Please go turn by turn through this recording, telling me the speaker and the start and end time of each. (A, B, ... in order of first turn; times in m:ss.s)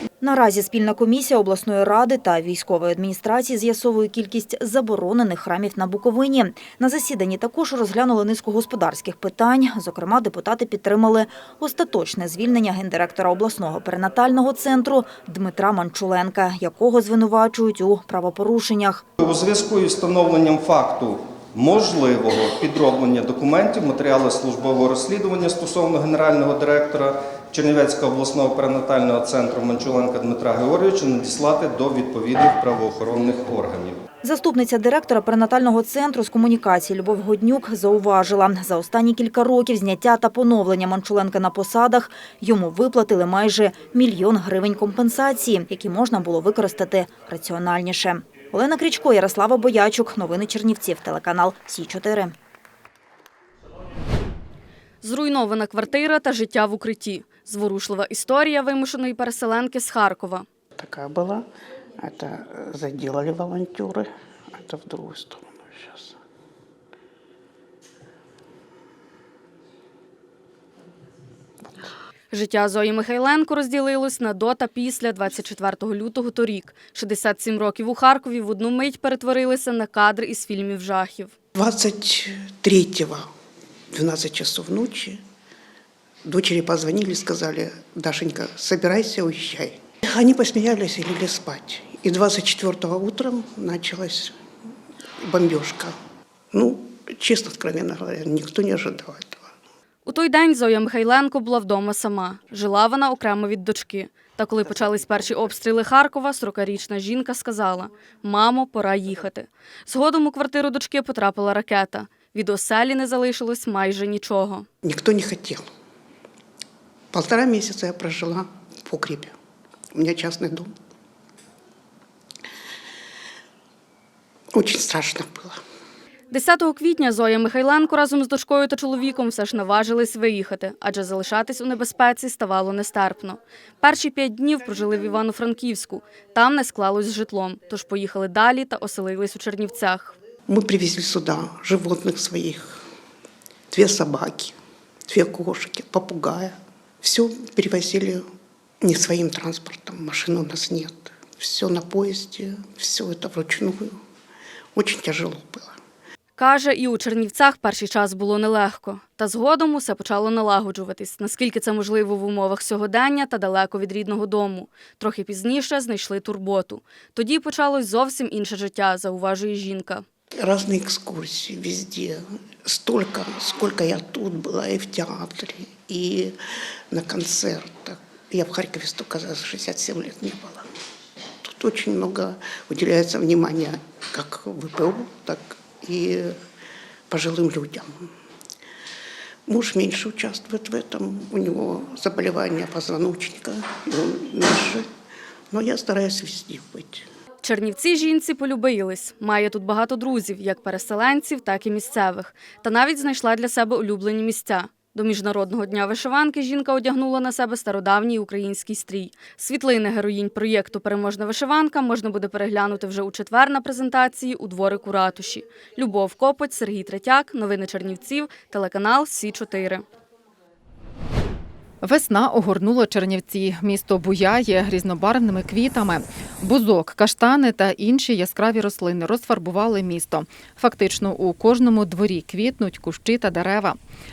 0:00.2-0:19.0 A
0:19.2-0:34.0 B
0:34.2-0:52.3 A
0:55.0-1:00.5 C
1:00.8-1:01.4 D
1:02.0-1:04.1 D
1:04.6-1:06.2 D
1:12.3-1:21.3 C
1:21.6-1:23.3 D
1:23.9-1:25.2 D
1:26.3-1:34.4 D
1:35.2-1:36.0 D
1:36.5-1:39.5 D
1:40.0-1:54.7 C
1:54.8-1:55.7 D
1:57.1-1:59.3 D
1:59.9-2:00.7 D
2:04.5-2:05.6 D
2:06.3-2:20.1 C
2:20.5-2:22.8 D
2:23.7-2:24.6 D
2:25.1-2:28.2 D
2:28.8-2:34.0 D
2:34.8-2:35.8 D
2:36.4-2:50.0 C
2:50.4-2:56.4 D
2:56.9-3:00.7 D
3:01.4-3:06.4 D
3:07.1-3:08.1 D
3:09.5-3:14.8 D
3:15.5-3:17.1 D
3:17.4-3:39.8 C
3:41.8-3:53.8 E